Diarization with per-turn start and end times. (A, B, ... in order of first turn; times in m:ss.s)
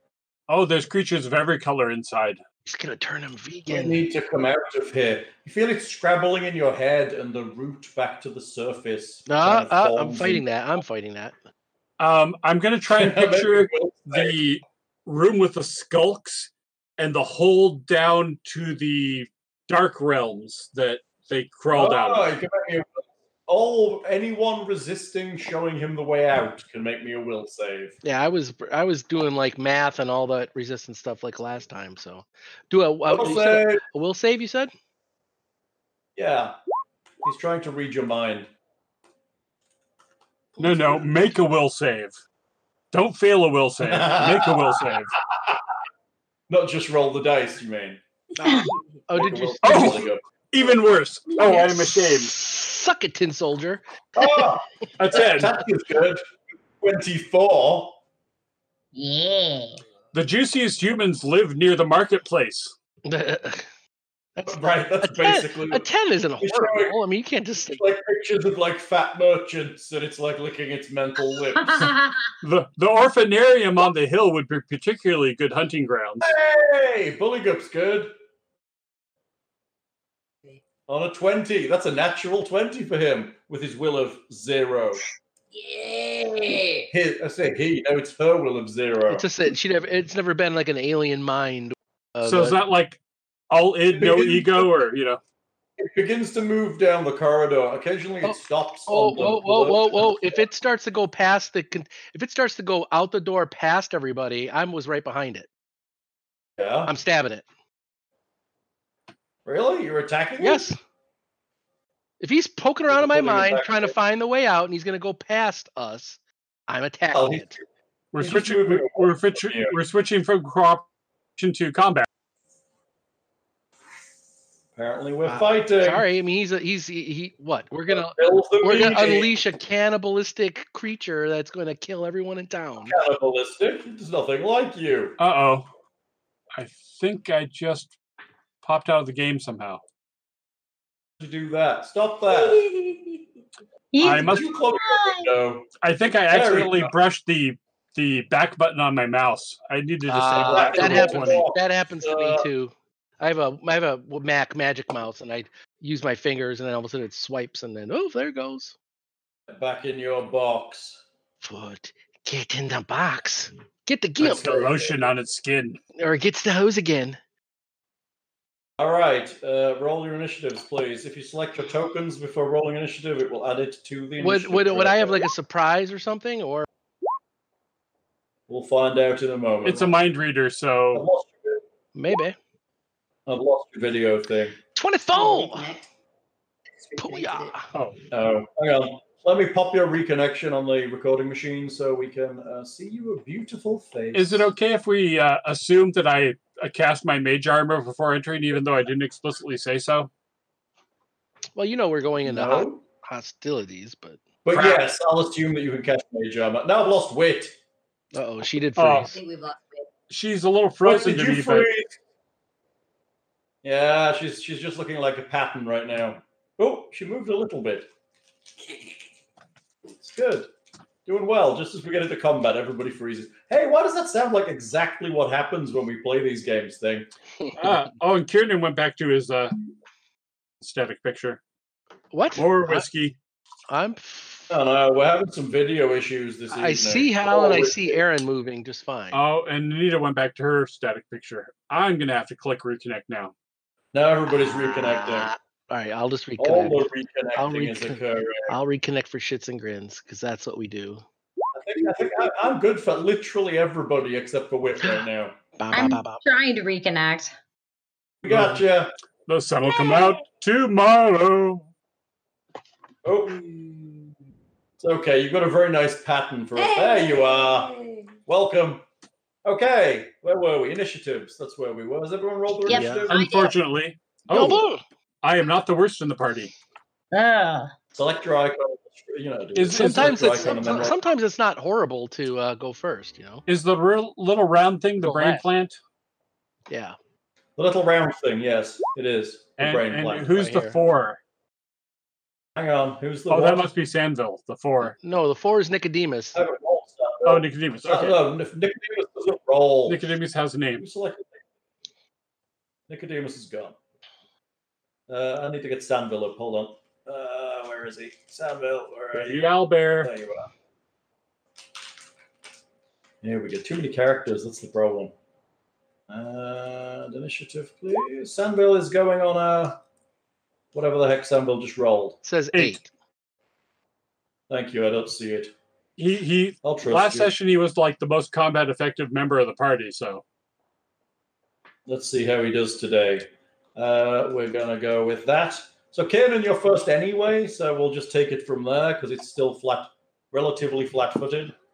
0:00.5-0:02.4 A
0:02.6-0:04.0 B
0:03.7-0:10.4 C
0:09.3-0:11.4 B
0:12.0-0:22.3 A
0:12.9-0:14.4 C
0:21.7-0:28.0 C
0:28.0-0:34.7 B
0:33.1-0:33.8 C
0:36.2-0:36.6 C
0:37.2-0:38.5 C
0:40.6-0:42.1 A
0:42.9-0:45.2 A
0:43.8-0:44.8 C
0:46.5-0:48.0 C
0:48.4-0:50.0 B
0:48.4-0:48.7 D
0:49.1-0:50.8 C
0:49.6-0:52.3 A
0:51.4-0:54.5 B
0:54.2-0:56.2 C
0:55.0-0:55.6 A
0:56.8-0:58.0 C
0:58.9-0:59.8 D
1:00.1-1:02.7 A
1:03.0-1:03.6 B
1:04.4-1:07.8 B
1:04.4-1:05.9 C
1:06.4-1:07.0 C
1:07.6-1:11.9 C
1:11.5-1:12.2 D
1:12.4-1:16.3 A
1:16.2-1:18.1 C
1:20.9-1:25.0 C
1:25.5-1:26.9 E
1:26.9-1:29.3 C
1:29.1-1:32.6 B
1:32.2-1:33.0 A
1:33.5-1:35.2 A
1:33.9-1:34.7 C
1:35.8-1:40.4 C
1:38.2-1:45.5 B
1:46.6-1:46.9 C
1:46.9-1:47.4 B
1:49.4-1:50.7 C
1:50.4-1:50.8 B
1:52.2-1:57.5 B
1:52.9-1:54.0 C
1:57.1-1:57.6 C
1:58.1-2:00.9 A
1:58.2-1:59.8 C
2:01.4-2:02.0 A
2:04.7-2:06.0 C
2:05.3-2:13.0 B
2:07.9-2:09.3 C
2:12.8-2:15.2 C
2:15.2-2:15.7 A
2:16.6-2:17.9 A
2:18.6-2:19.8 A
2:21.2-2:22.7 C
2:22.3-2:23.2 E
2:23.9-2:25.3 D
2:24.0-2:24.4 A
2:24.0-2:25.7 C
2:25.8-2:31.4 A
2:26.3-2:26.9 C
2:30.1-2:38.7 B
2:30.3-2:32.5 C
2:39.5-2:41.0 C
2:41.4-2:44.4 B
2:44.2-2:45.8 A
2:44.3-2:45.0 C
2:46.0-2:47.2 B
2:48.8-2:55.3 C
2:54.2-2:56.6 B
2:58.5-3:00.0 C
2:59.6-3:01.1 A
3:00.9-3:01.6 C
3:01.9-3:02.4 B
3:03.3-3:04.6 C
3:04.7-3:05.7 B
3:05.1-3:05.9 E
3:06.7-3:07.6 E
3:07.0-3:07.6 B
3:08.1-3:14.5 C
3:14.1-3:20.1 A
3:21.6-3:24.2 B
3:22.2-3:22.8 C
3:24.4-3:27.6 C
3:28.1-3:29.2 B
3:28.8-3:29.1 A
3:29.1-3:29.9 E
3:30.1-3:31.7 A
3:30.8-3:32.0 C
3:33.6-3:37.9 C
3:40.0-3:40.5 C
3:41.0-3:47.1 C
3:47.6-3:49.6 A
3:50.6-3:51.4 A
3:52.1-3:52.9 B
3:52.4-3:53.2 A
3:53.7-3:54.5 B
3:54.5-3:58.0 C
3:56.5-3:59.2 B
3:59.1-4:03.3 A
4:03.9-4:05.3 C
4:04.3-4:11.0 B
4:06.4-4:08.6 C
4:11.6-4:15.4 C
4:15.6-4:16.2 B
4:15.7-4:17.3 D
4:18.2-4:18.9 C
4:18.3-4:18.6 A
4:19.3-4:21.7 A
4:23.0-4:23.4 C
4:23.4-4:23.9 E
4:24.8-4:27.7 C
4:26.6-4:28.2 E
4:28.3-4:28.8 C
4:29.4-4:33.3 C
4:32.6-4:33.6 E
4:32.7-4:33.1 B
4:33.1-4:34.6 A
4:34.3-4:34.8 B
4:35.2-4:36.5 A
4:37.1-4:37.7 D
4:37.9-4:41.0 C
4:39.6-4:40.6 A
4:39.7-4:43.4 B
4:43.5-4:45.8 A
4:45.0-4:45.4 B
4:46.7-4:47.0 B
4:47.6-4:50.4 C
4:49.6-4:51.2 A
4:50.3-4:50.8 B
4:52.6-4:53.7 C
4:53.3-4:54.9 A
4:54.9-4:56.4 B
4:56.3-5:00.1 C
4:57.2-4:58.2 A
4:59.9-5:00.9 A
5:00.8-5:01.4 C
5:02.9-5:03.8 C
5:05.1-5:09.5 C
5:09.1-5:10.1 A
5:10.0-5:10.5 C
5:13.2-5:15.1 C
5:16.1-5:19.8 C
5:20.7-5:22.2 C
5:22.2-5:22.9 B
5:24.5-5:25.5 C
5:26.0-5:30.2 A
5:26.6-5:27.3 C
5:31.9-5:41.6 C